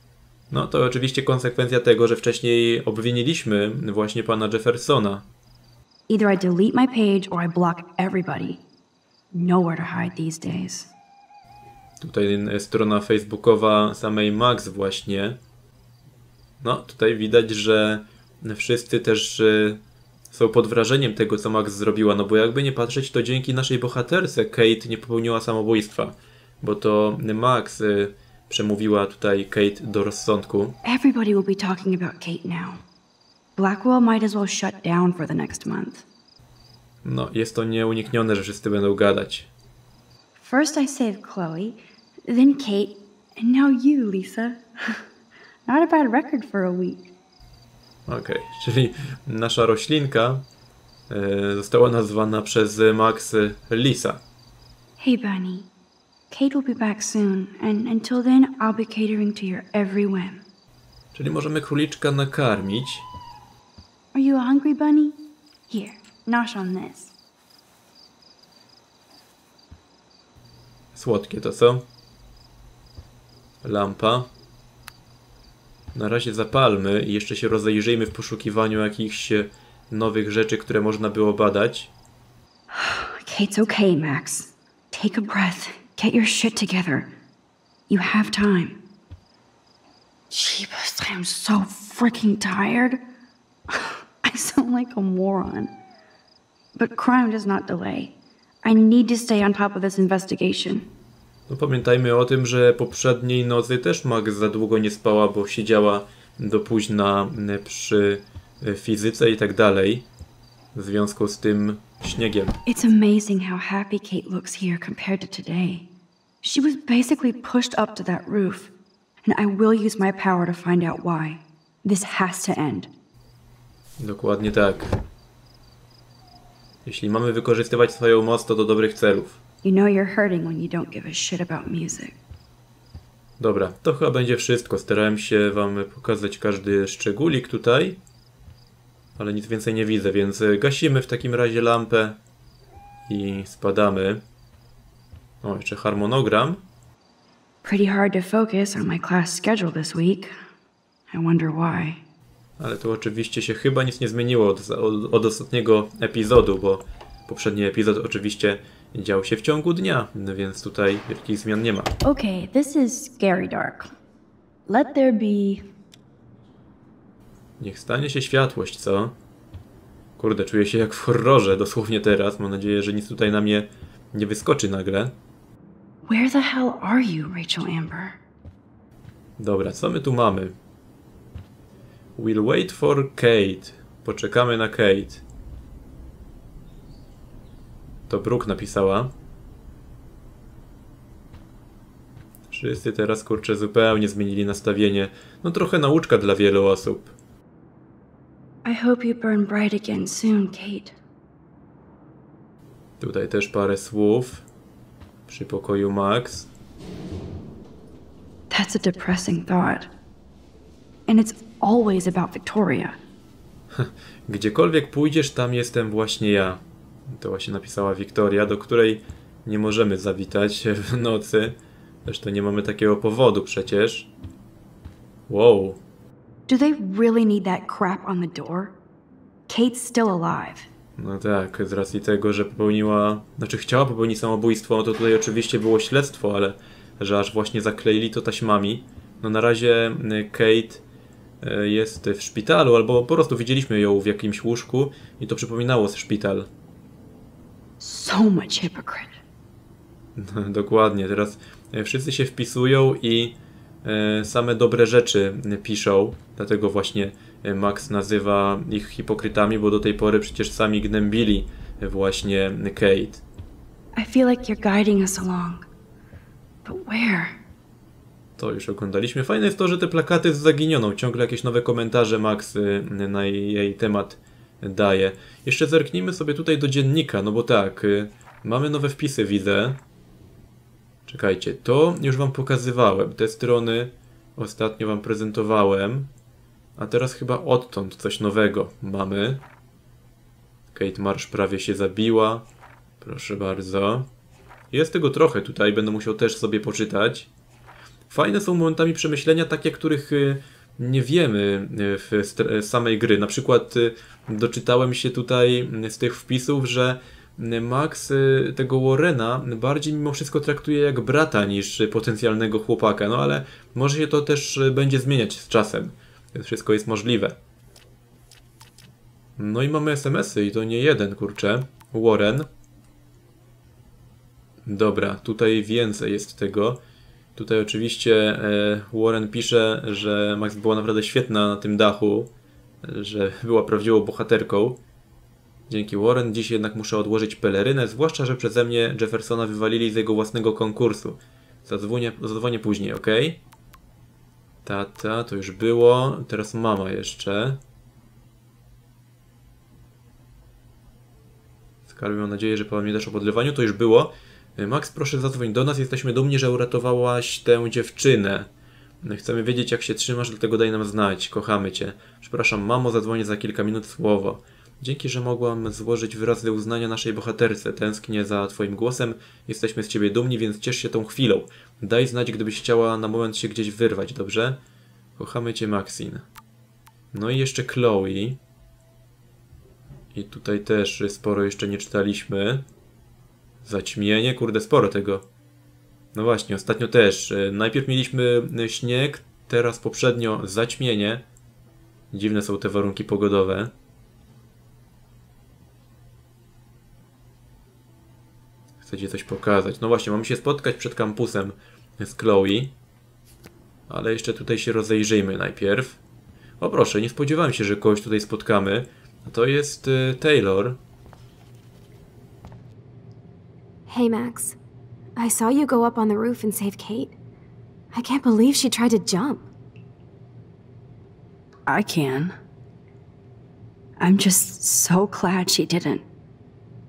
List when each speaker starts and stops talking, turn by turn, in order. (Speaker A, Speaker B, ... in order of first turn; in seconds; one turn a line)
Speaker A: 0.5-5.3
Speaker B: 6.1-8.6
Speaker B: 9.3-10.9
Speaker A: 12.0-15.4
Speaker A: 16.6-19.8
Speaker A: 20.3-30.8
Speaker B: 30.8-32.8
Speaker B: 33.6-36.0
Speaker A: 37.0-39.5
Speaker B: 40.4-45.0
Speaker B: 45.7-47.1
Speaker A: 48.1-50.5
Speaker A: 51.1-54.2
Speaker B: 55.0-55.7
Speaker B: 56.3-60.4
Speaker A: 61.1-63.1
Speaker B: 64.1-65.2
Speaker B: 65.7-67.1
Speaker A: 70.9-71.9
Speaker A: 73.6-74.3
Speaker A: 75.9-81.9
Speaker B: 82.7-87.1
Speaker B: 87.9-88.8
Speaker B: 90.3-93.0
Speaker B: 93.7-95.7
Speaker B: 96.8-100.9
Speaker A: 101.5-110.1
Speaker A: 110.8-112.6
Speaker B: 112.7-115.9
Speaker B: 116.4-118.7
Speaker B: 119.2-122.9
Speaker A: 124.0-125.0
Speaker A: 126.8-129.4
Speaker B: 129.6-132.2
Speaker A: 133.4-138.0
Speaker A: 139.2-142.2
Speaker A: 143.1-144.2
Speaker A: 145.4-146.7
Speaker B: 147.6-150.3
Speaker B: 151.1-152.0
Speaker A: 152.6-161.9
Speaker B: 162.0-163.9
Speaker B: 164.7-165.7
Speaker A: 167.6-169.2
Speaker A: 170.2-175.2
Speaker B: 176.1-178.2
Speaker A: 179.4-180.6
Speaker A: 182.2-185.2
Speaker A: 188.1-189.1
Speaker A: 192.5-197.1
Speaker B: 198.6-201.0
Speaker A: 203.0-204.4
Speaker A: 205.3-206.5
Speaker B: 208.5-209.9
Speaker B: 211.1-213.0
Speaker A: 213.7-224.1
Speaker A: 225.3-225.8
Speaker B: 226.5-228.8
Speaker B: 229.5-230.7
Speaker A: 231.0-240.8
Speaker A: 241.4-246.5
Speaker B: 247.8-249.2
Speaker A: 250.2-263.2
Speaker B: 263.9-265.7
Speaker B: 266.6-267.4
Speaker A: 268.4-279.8
Speaker A: 281.1-286.1
Speaker A: 286.8-289.4
Speaker A: 290.7-292.5
Speaker A: 293.0-294.1
Speaker A: 294.7-297.3
Speaker A: 298.1-317.4
Speaker A: 319.4-322.5
Speaker A: 324.6-326.8
Speaker A: 327.4-332.3
Speaker A: 332.8-334.8
Speaker A: 335.7-343.4
Speaker A: 344.6-347.6
Speaker A: 351.9-358.5
Speaker A: 359.0-374.6
Speaker A: 375.2-376.3
Speaker A: 377.1-378.4
Speaker A: 380.1-382.7
Speaker A: 383.6-385.3
Speaker A: 386.1-391.2
Speaker A: 392.1-393.7
Speaker A: 398.8-402.8
Speaker A: 403.9-406.0
Speaker A: 406.6-410.8
Speaker C: 413.9-414.6
Speaker C: 415.2-417.2
Speaker C: 417.9-419.5
Speaker B: 421.7-422.4
Speaker B: 424.0-426.0